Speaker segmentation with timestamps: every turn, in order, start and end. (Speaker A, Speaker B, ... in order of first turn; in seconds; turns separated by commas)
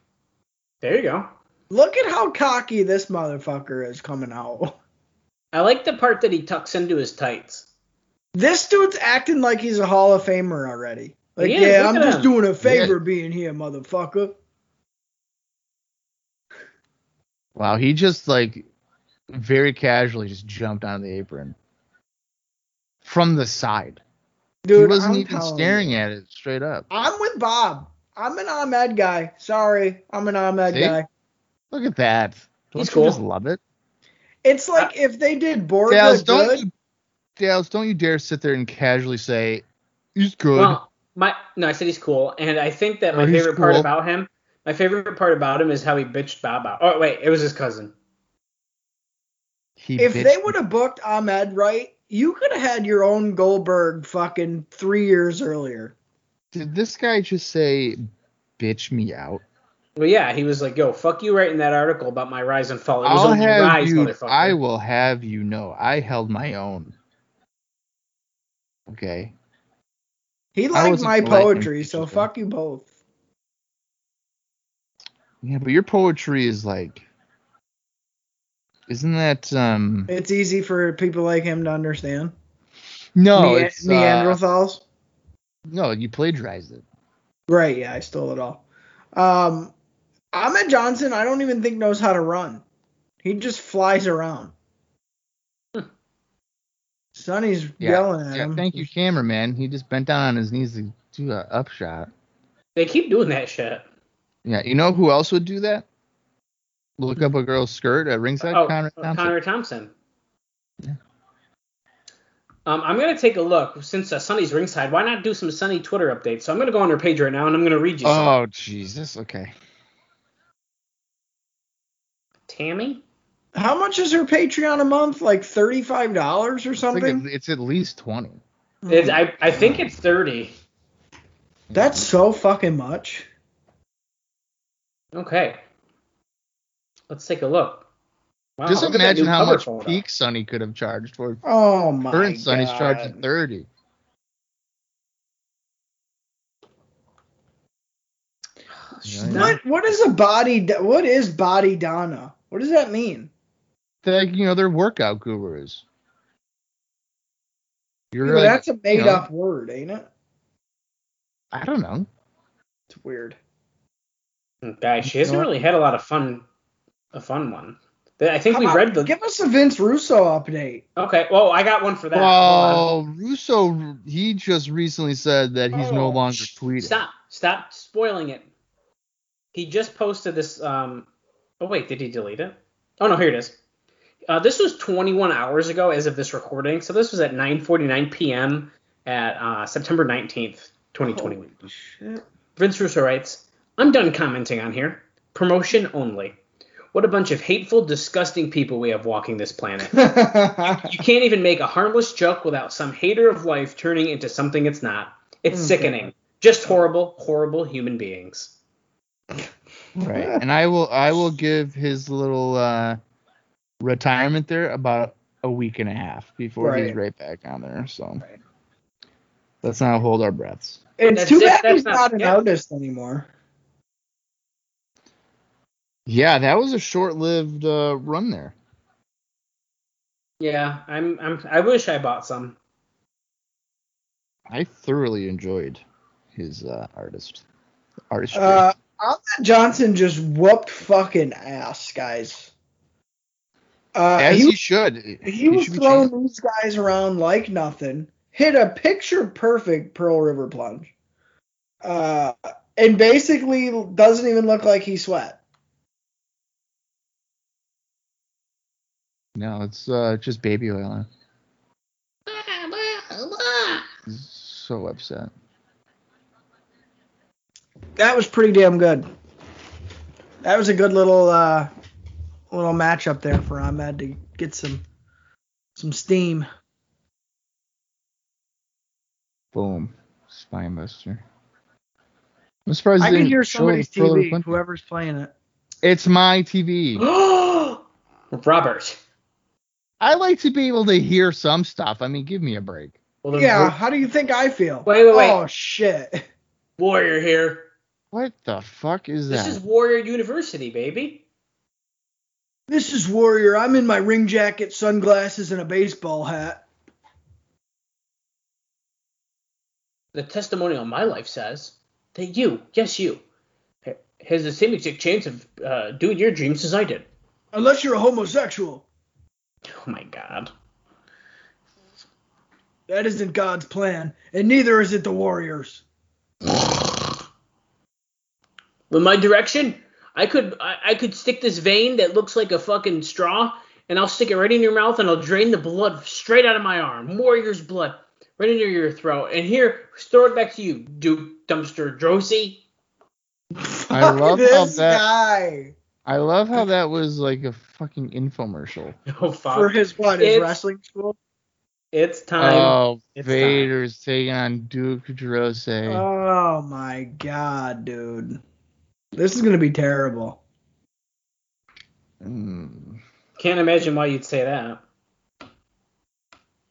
Speaker A: 0.8-1.3, Speaker B: 1.7-4.8, Speaker A: 5.5-7.7, Speaker B: 8.3-14.3, Speaker A: 11.4-12.3, Speaker C: 12.6-12.9, Speaker C: 17.6-18.7, Speaker C: 19.3-21.6, Speaker C: 23.0-24.0, Speaker B: 24.6-26.0, Speaker C: 24.7-26.9, Speaker B: 26.9-31.1, Speaker C: 30.7-31.0, Speaker C: 31.7-33.6, Speaker A: 32.8-33.2, Speaker B: 34.4-36.6, Speaker C: 35.9-36.7, Speaker C: 37.4-39.6, Speaker C: 40.1-40.8, Speaker A: 40.5-47.9, Speaker C: 43.1-43.9, Speaker C: 49.8-50.6, Speaker B: 50.0-55.9, Speaker C: 56.5-58.0, Speaker C: 58.6-59.4, Speaker A: 60.0-64.6, Speaker C: 63.0-66.9, Speaker C: 68.9-69.3, Speaker B: 70.6-72.9, Speaker C: 70.7-72.3, Speaker C: 75.4-77.1, Speaker C: 78.9-80.1, Speaker B: 80.1-82.3, Speaker C: 83.2-84.4, Speaker B: 83.3-84.8, Speaker C: 85.7-86.8, Speaker B: 87.5-88.6, Speaker B: 89.1-89.7, Speaker B: 90.3-92.6, Speaker B: 93.2-94.5, Speaker B: 97.2-98.9, Speaker C: 97.8-102.1, Speaker A: 102.8-103.8, Speaker C: 104.4-105.8, Speaker C: 107.0-109.3, Speaker A: 108.4-109.9, Speaker A: 112.7-118.3, Speaker C: 118.0-119.5, Speaker A: 122.5-123.0, Speaker B: 123.5-127.2, Speaker C: 126.9-128.4, Speaker B: 128.8-129.8, Speaker A: 128.9-130.5, Speaker C: 131.7-132.0, Speaker B: 131.7-133.2, Speaker A: 135.1-135.6, Speaker A: 137.1-137.8, Speaker A: 138.6-140.0, Speaker C: 138.7-141.4, Speaker B: 141.4-143.2, Speaker C: 142.1-143.7, Speaker A: 149.0-149.6, Speaker C: 149.0-149.6, Speaker B: 149.2-153.3, Speaker C: 154.0-155.8, Speaker C: 158.1-159.2, Speaker B: 158.2-160.1, Speaker C: 161.5-162.1, Speaker B: 162.9-163.4, Speaker A: 164.6-166.4, Speaker C: 165.0-165.5, Speaker A: 167.1-169.1, Speaker B: 168.5-170.8, Speaker A: 171.0-172.9, Speaker C: 172.1-177.0, Speaker A: 175.7-178.4, Speaker A: 179.5-181.1, Speaker A: 181.6-183.6, Speaker A: 184.3-191.7, Speaker B: 191.1-192.2, Speaker A: 192.6-196.4, Speaker A: 196.9-208.5, Speaker B: 199.9-200.9, Speaker B: 205.5-206.1, Speaker C: 210.0-213.0, Speaker B: 210.1-210.4, Speaker C: 213.8-218.2, Speaker B: 216.6-217.0, Speaker C: 219.6-220.8, Speaker B: 221.0-223.3, Speaker A: 221.2-222.4, Speaker C: 226.1-228.5, Speaker A: 230.4-232.6, Speaker C: 234.5-235.8, Speaker C: 236.3-237.4, Speaker C: 238.1-238.6, Speaker B: 238.3-242.5, Speaker B: 243.9-244.6, Speaker C: 244.2-246.1, Speaker B: 245.2-250.9, Speaker B: 251.8-255.4, Speaker C: 259.4-261.1, Speaker A: 262.3-263.9, Speaker C: 264.1-265.3, Speaker B: 268.0-269.1, Speaker B: 270.4-271.7, Speaker B: 272.5-274.8, Speaker B: 275.8-276.5, Speaker C: 279.5-281.2, Speaker C: 282.6-284.6, Speaker B: 283.0-285.3, Speaker C: 285.8-287.0, Speaker A: 287.0-287.8, Speaker A: 288.3-289.0, Speaker C: 290.0-293.0, Speaker A: 293.2-293.8, Speaker B: 293.3-296.2, Speaker A: 294.9-295.4, Speaker A: 296.8-297.7, Speaker C: 298.1-299.6, Speaker A: 299.3-301.2, Speaker B: 302.7-306.6, Speaker A: 310.1-313.2, Speaker A: 313.9-317.1, Speaker B: 317.5-318.9, Speaker A: 319.7-320.5, Speaker B: 322.9-325.8, Speaker A: 328.9-342.6, Speaker B: 343.5-345.7, Speaker C: 343.9-345.0, Speaker C: 346.1-349.0, Speaker A: 349.1-350.6, Speaker B: 349.5-351.1, Speaker A: 351.9-353.7, Speaker C: 352.4-356.0, Speaker B: 355.9-358.4, Speaker B: 359.1-360.4, Speaker C: 362.2-363.0, Speaker A: 363.4-364.8